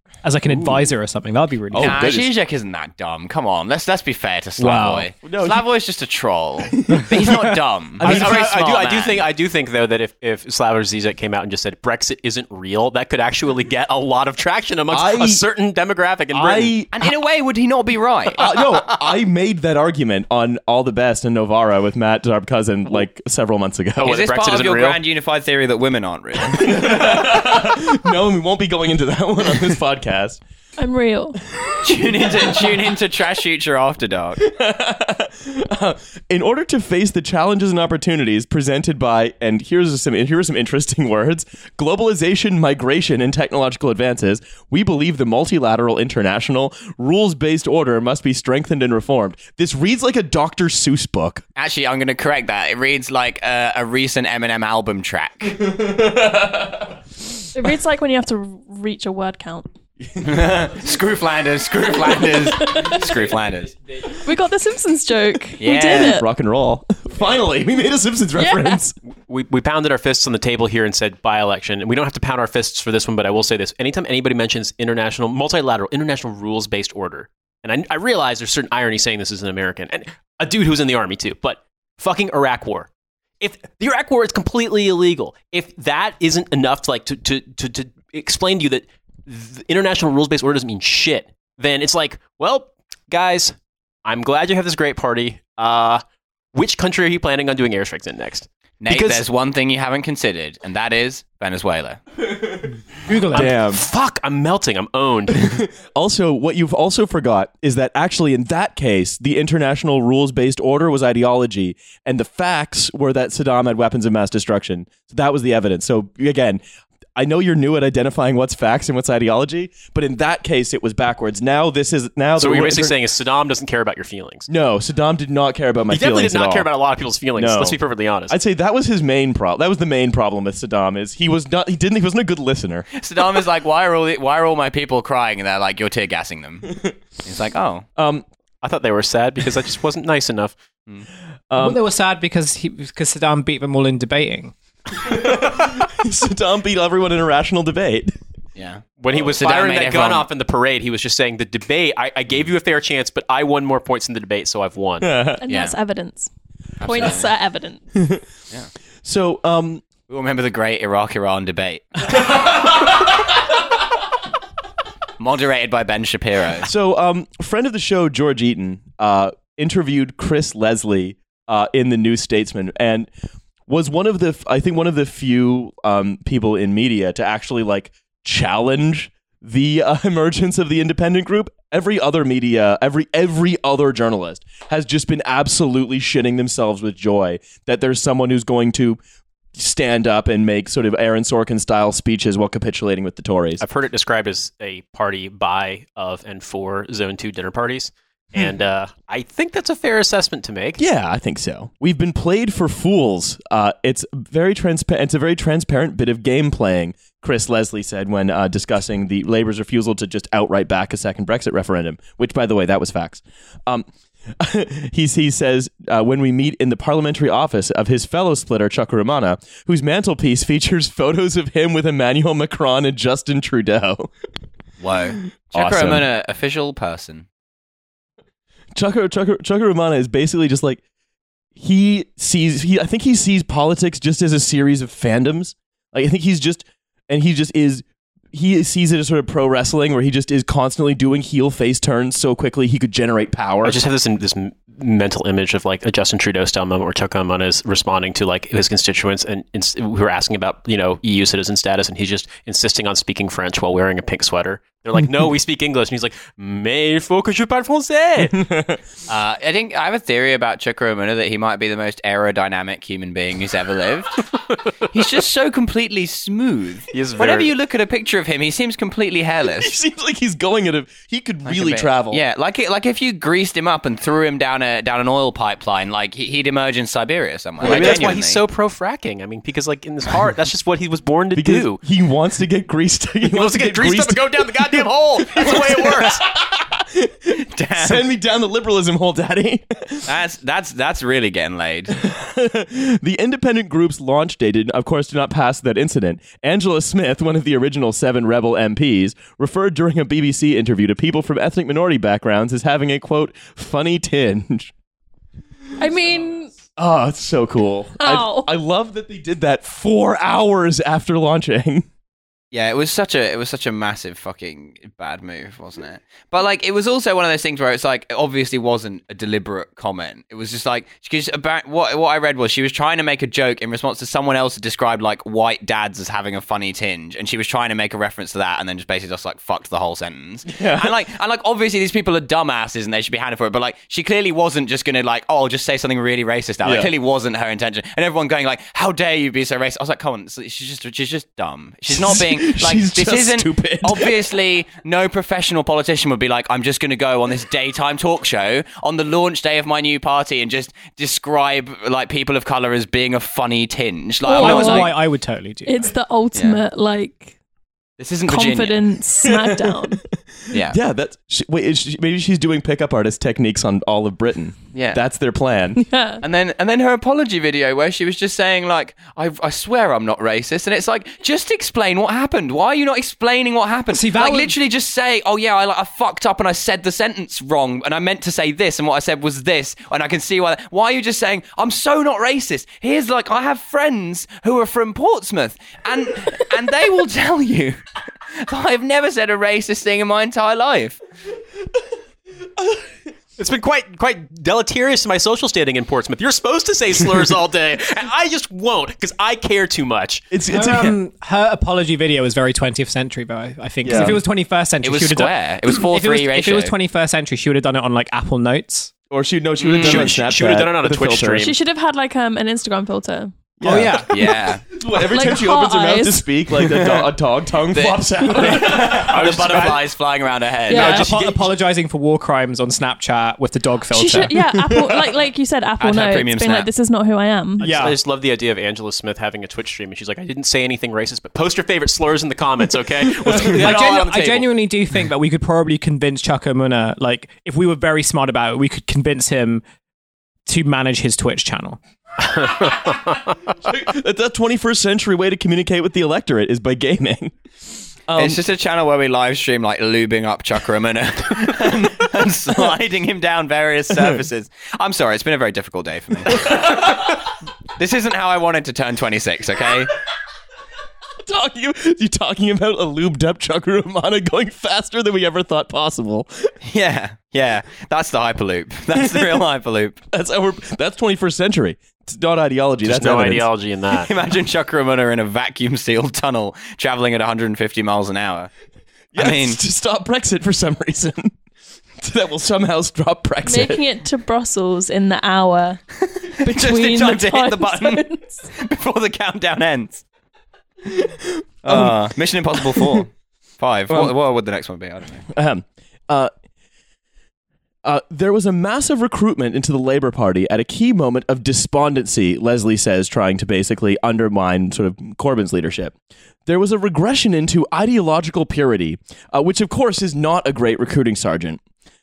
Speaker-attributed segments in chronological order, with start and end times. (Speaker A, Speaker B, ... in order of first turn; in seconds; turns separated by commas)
Speaker A: 0.2-2.0, Speaker B: 0.5-0.8, Speaker B: 1.7-2.3, Speaker C: 1.8-9.2, Speaker B: 4.6-5.6, Speaker A: 4.7-5.0, Speaker B: 6.7-7.3, Speaker B: 8.0-8.3, Speaker D: 8.0-16.8, Speaker B: 14.9-15.4, Speaker B: 16.3-17.1, Speaker C: 16.9-18.6, Speaker B: 18.4-24.2, Speaker D: 24.0-25.0, Speaker C: 24.0-27.3, Speaker B: 26.4-30.4, Speaker E: 30.8-31.4, Speaker B: 31.5-32.9, Speaker C: 31.8-34.4, Speaker B: 34.4-51.4, Speaker C: 51.6-55.7, Speaker B: 55.6-57.0, Speaker E: 57.5-59.7, Speaker B: 60.0-60.5, Speaker C: 60.2-63.7, Speaker E: 62.1-63.1, Speaker E: 64.1-66.3, Speaker C: 65.6-66.2, Speaker B: 65.8-68.9, Speaker E: 68.4-68.8, Speaker D: 69.3-82.9, Speaker D: 83.4-96.0, Speaker D: 96.5-99.2, Speaker C: 98.8-102.0, Speaker A: 103.1-103.5, Speaker B: 103.3-103.8, Speaker D: 103.3-105.6, Speaker B: 105.3-116.6, Speaker B: 117.2-123.0, Speaker D: 122.4-124.5, Speaker B: 124.5-126.7, Speaker D: 125.9-128.4, Speaker B: 127.4-127.8, Speaker B: 128.3-132.9, Speaker C: 133.0-136.7, Speaker B: 136.7-136.9, Speaker C: 137.2-137.9, Speaker B: 138.0-138.2, Speaker D: 138.6-140.6, Speaker B: 141.5-141.8, Speaker A: 141.6-144.5, Speaker B: 145.0-148.1, Speaker C: 148.6-150.3, Speaker D: 149.0-155.1, Speaker B: 155.0-155.4, Speaker E: 155.4-156.3, Speaker C: 155.5-155.8, Speaker C: 156.8-157.3, Speaker E: 156.8-157.8, Speaker B: 157.9-158.2, Speaker B: 159.0-159.8, Speaker C: 160.1-162.2, Speaker C: 165.2-166.7, Speaker B: 166.6-173.1, Speaker B: 173.7-189.0, Speaker B: 189.6-193.6, Speaker D: 193.6-200.8, Speaker B: 200.8-213.9, Speaker B: 214.4-224.1, Speaker C: 224.8-227.3, Speaker B: 225.5-226.0, Speaker B: 228.8-230.8, Speaker B: 231.6-243.8, Speaker D: 243.6-258.5, Speaker B: 258.3-258.8, Speaker C: 259.1-264.3, Speaker C: 264.9-269.7, Speaker D: 266.9-267.5, Speaker B: 269.5-272.2, Speaker C: 271.5-278.4, Speaker D: 277.6-281.8, Speaker B: 277.6-278.1, Speaker B: 281.4-290.1, Speaker D: 283.2-286.3, Speaker C: 287.5-288.0, Speaker C: 290.1-292.0, Speaker B: 291.9-304.7, Speaker E: 305.8-306.5, Speaker B: 306.8-311.9, Speaker E: 308.0-308.5, Speaker C: 312.5-354.9, Speaker B: 330.5-330.9, Speaker B: 336.6-336.9, Speaker B: 341.9-344.3, Speaker E: 354.2-355.0, Speaker A: 354.3-355.9, Speaker E: 355.6-357.4, Speaker C: 356.4-356.6, Speaker C: 358.0-358.8, Speaker E: 358.3-360.0, Speaker B: 359.2-365.8, Speaker C: 360.5-360.8, Speaker C: 364.7-365.0, Speaker E: 365.8-366.2, Speaker C: 366.2-387.8, Speaker A: 373.9-374.6, Speaker C: 388.4-391.0, Speaker D: 393.4-400.2, Speaker B: 400.3-401.0, Speaker A: 400.5-408.9, Speaker B: 403.8-404.2, Speaker C: 404.8-406.7, Speaker B: 409.1-411.5, Speaker C: 409.6-410.1, Speaker D: 409.7-411.6, Speaker E: 411.4-413.3, Speaker B: 413.6-419.8, Speaker A: 413.6-414.1, Speaker C: 414.1-414.6, Speaker E: 415.1-416.2, Speaker C: 416.6-417.1, Speaker C: 417.7-421.3, Speaker D: 419.1-419.8, Speaker E: 420.7-421.1, Speaker A: 420.7-424.4, Speaker E: 423.9-427.7, Speaker C: 425.8-426.7, Speaker D: 427.6-434.4, Speaker A: 427.6-427.9, Speaker B: 433.0-433.7, Speaker A: 433.4-439.6, Speaker A: 440.4-441.8, Speaker D: 442.3-443.2, Speaker B: 443.6-447.3, Speaker B: 448.1-448.4, Speaker C: 448.2-459.9, Speaker B: 453.9-454.2, Speaker B: 456.3-457.1, Speaker B: 461.3-466.5, Speaker C: 466.6-470.0, Speaker B: 468.9-469.4, Speaker B: 470.1-473.5, Speaker D: 472.8-474.1, Speaker C: 473.9-478.5, Speaker B: 479.1-481.3, Speaker C: 479.2-479.6, Speaker B: 482.0-483.8, Speaker E: 483.4-485.8, Speaker C: 486.2-490.0, Speaker E: 486.4-488.5, Speaker B: 490.9-493.0, Speaker C: 491.6-495.2, Speaker B: 493.9-494.1, Speaker B: 495.3-496.3, Speaker B: 497.8-505.9, Speaker B: 506.4-511.6